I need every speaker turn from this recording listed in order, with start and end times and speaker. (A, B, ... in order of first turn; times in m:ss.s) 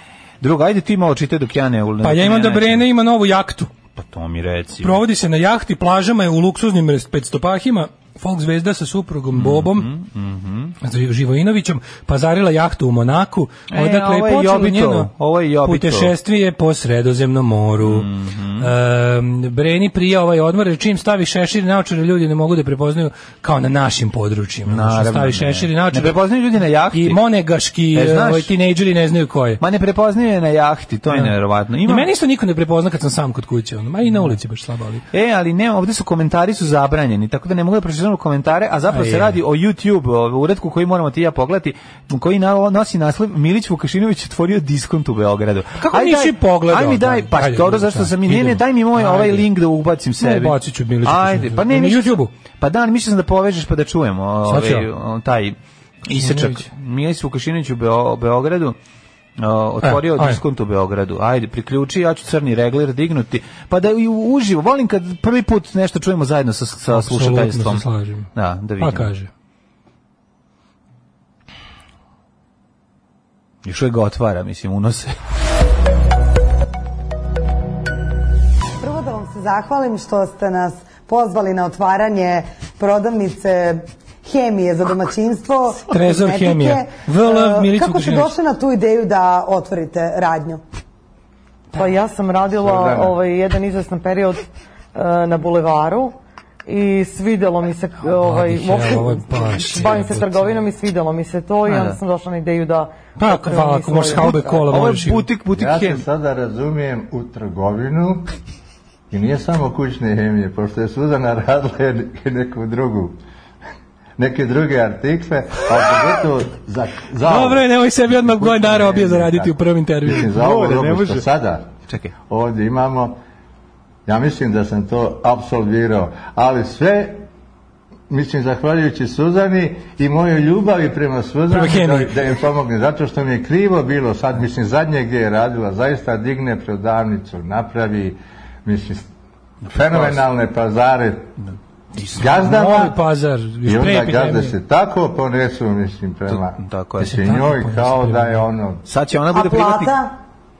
0:00.4-0:02.8 A
0:02.0-0:03.7 B
0:04.0-0:05.0 A
0:04.8-0:09.9 B
0:09.3-0:10.8 A
0:10.8-0:15.1 B
0:13.7-0:16.1 A
0:15.6-0:26.2 B
0:17.8-0:18.7 A
0:24.7-0:27.2 A
0:26.9-0:29.6 B
0:27.9-0:28.5 A
0:29.6-0:32.1 A
0:31.8-0:35.0 B
0:35.1-0:55.6 A
0:38.9-0:39.4 B
0:45.8-0:49.5 B
0:50.2-0:52.3 B
0:54.5-0:54.9 B
0:56.1-0:56.7 B
0:56.1-0:58.8 A
0:59.4-1:09.1 A
0:59.8-1:00.4 B
1:06.9-1:09.3 B
1:13.6-1:15.2 A
1:18.8-1:30.6 C
1:25.9-1:28.3 B
1:31.8-1:36.2 D
1:32.6-1:33.2 E
1:36.7-1:44.6 D
1:38.0-1:40.6 B
1:41.7-1:42.0 A
1:43.2-1:45.3 B
1:44.2-1:46.0 A
1:45.5-1:48.3 E
1:49.1-1:53.2 E
1:54.2-2:01.7 E
1:57.2-2:00.3 B
2:00.1-2:01.3 A
2:01.9-2:02.1 A
2:02.3-2:03.2 E
2:04.1-2:07.3 E
2:08.1-2:19.1 E
2:11.5-2:12.2 B
2:19.7-2:20.2 A
2:19.7-2:21.3 E
2:22.0-2:24.6 B
2:22.1-2:23.0 E
2:23.7-2:28.8 E
2:26.3-2:27.2 A
2:27.0-2:28.4 B
2:28.8-2:30.0 A
2:29.3-2:30.2 C